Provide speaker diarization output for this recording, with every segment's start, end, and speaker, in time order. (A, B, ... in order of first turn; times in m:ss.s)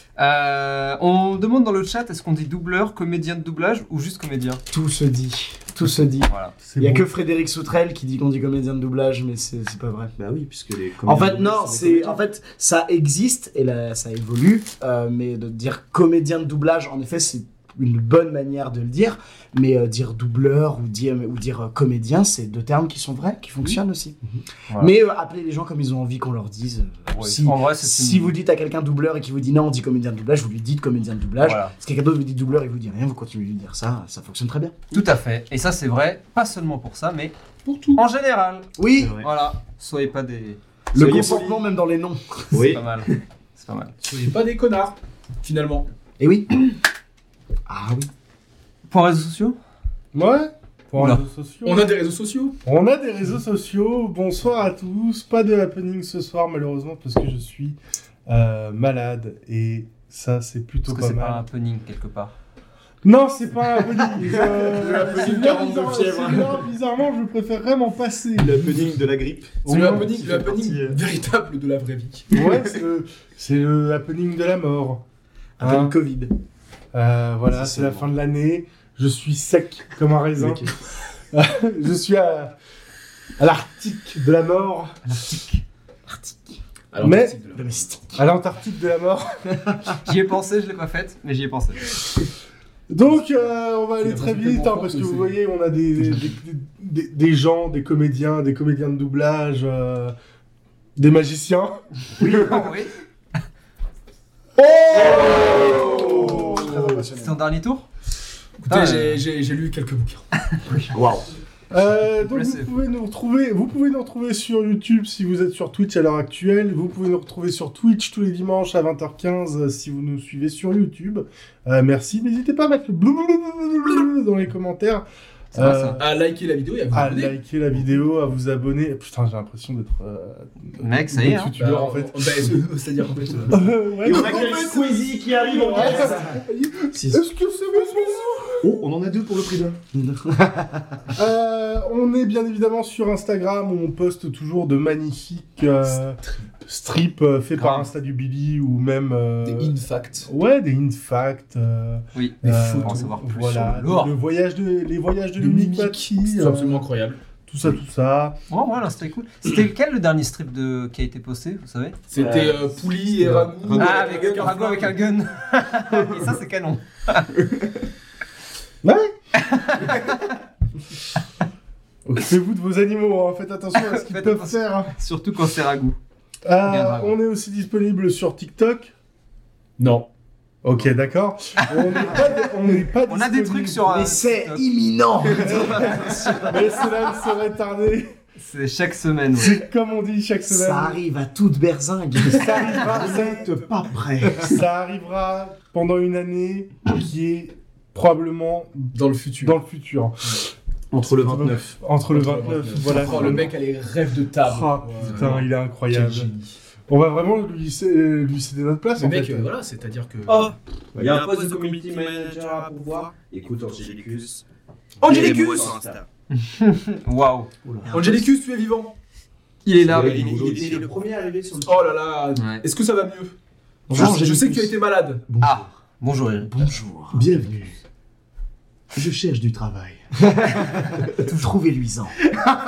0:00.2-0:04.6 A
0:04.7-0:10.1 B
0:06.3-0:06.5 A
0:06.6-0:07.1 C
0:10.2-0:12.2 D
0:11.0-0:24.2 B
0:24.8-0:34.8 B
0:27.1-0:28.4 A
0:31.4-0:31.7 A
0:34.9-0:37.3 A
0:37.6-0:38.0 E
0:37.9-0:40.6 A
0:38.8-0:39.2 B
0:39.0-0:39.3 D
0:40.9-0:41.6 D
0:40.9-0:42.7 B
0:42.5-0:43.2 D
0:42.7-0:43.9 A
0:44.0-0:45.9 E
0:46.2-0:46.7 B
0:47.7-0:48.1 B
0:48.9-0:49.6 A
0:50.1-0:51.9 C
0:51.0-0:51.2 A
0:51.6-0:52.6 E
0:52.6-1:01.4 C
1:00.9-1:02.3 A
1:03.0-1:08.8 C
1:04.0-1:06.6 B
1:08.4-1:11.0 D
1:09.6-1:10.2 C
1:09.6-1:12.3 E
1:12.3-1:15.0 C
1:12.3-1:12.8 D
1:15.6-1:16.3 B
1:15.6-1:16.0 C
1:16.9-1:20.7 C
1:17.5-1:18.1 D
1:20.4-1:20.7 D
1:21.3-1:22.5 C
1:23.4-1:25.0 C
1:25.1-1:25.6 A
1:26.1-1:26.6 B
1:26.9-1:27.8 E
1:27.0-1:27.4 C
1:27.5-1:28.2 B
1:28.1-1:29.3 C
1:30.0-1:31.8 A
1:32.9-1:40.1 C
1:34.0-1:35.4 E
1:41.0-1:42.6 C
1:42.2-1:42.6 B
1:42.4-1:42.9 A
1:44.6-1:47.0 C
1:44.9-1:47.4 B
1:47.2-1:47.9 A
1:48.6-1:50.3 E
1:48.7-1:49.2 A
1:50.9-1:51.3 D
1:51.7-2:06.0 C
1:52.3-1:52.7 A
2:05.5-2:06.0 A
2:06.0-2:07.4 E
2:06.9-2:12.5 C
2:10.8-2:11.5 A
2:11.6-2:13.7 E
2:13.5-2:18.7 C
2:14.0-2:16.4 D
2:15.7-2:16.4 B
2:16.9-2:17.2 D
2:18.6-2:19.8 D
2:19.9-2:21.0 B
2:21.1-2:36.9 C
2:26.2-2:26.5 E
2:27.6-2:27.9 A
2:29.4-2:30.3 E
2:32.1-2:33.3 A
2:32.4-2:34.2 E
2:35.4-2:37.2 E
2:37.4-2:38.4 C
2:38.5-2:42.0 A
2:42.1-2:45.0 E
2:42.2-2:42.6 F
2:43.6-2:44.5 D
2:43.7-2:47.3 A
2:48.8-2:49.1 C
2:49.4-2:50.4 A
2:52.0-2:54.9 C
2:53.8-2:56.0 A
2:56.4-2:58.9 C
2:56.6-2:57.2 A
2:59.8-3:00.1 E
3:00.6-3:03.9 C
3:03.1-3:04.6 A
3:03.8-3:06.8 B
3:05.4-3:05.9 C
3:06.5-3:08.1 C
3:08.4-3:09.6 A
3:09.3-3:11.0 C
3:10.5-3:13.2 B
3:12.2-3:13.5 C
3:12.7-3:14.6 D
3:14.3-3:20.4 C
3:18.9-3:19.6 E
3:20.9-3:21.7 D
3:21.0-3:23.5 C
3:22.1-3:26.6 E
3:24.4-3:26.3 C
3:26.9-3:29.5 C
3:29.0-3:30.5 E
3:30.2-3:34.4 F
3:30.9-3:31.3 D
3:35.0-3:36.0 F
3:35.0-3:35.8 E
3:36.3-3:37.5 A
3:37.6-3:37.9 D
3:37.8-3:38.2 B
3:37.9-3:38.9 E
3:39.6-3:40.4 A
3:39.8-3:42.0 F
3:39.8-3:41.0 D
3:41.6-3:43.3 E
3:42.4-3:42.6 A
3:43.9-3:44.8 B
3:43.9-3:45.2 E
3:45.3-3:45.7 D
3:45.4-3:46.5 A
3:46.4-3:47.3 B
3:47.1-3:47.7 D
3:48.9-3:50.0 D
3:50.2-3:52.2 B
3:50.8-3:51.1 D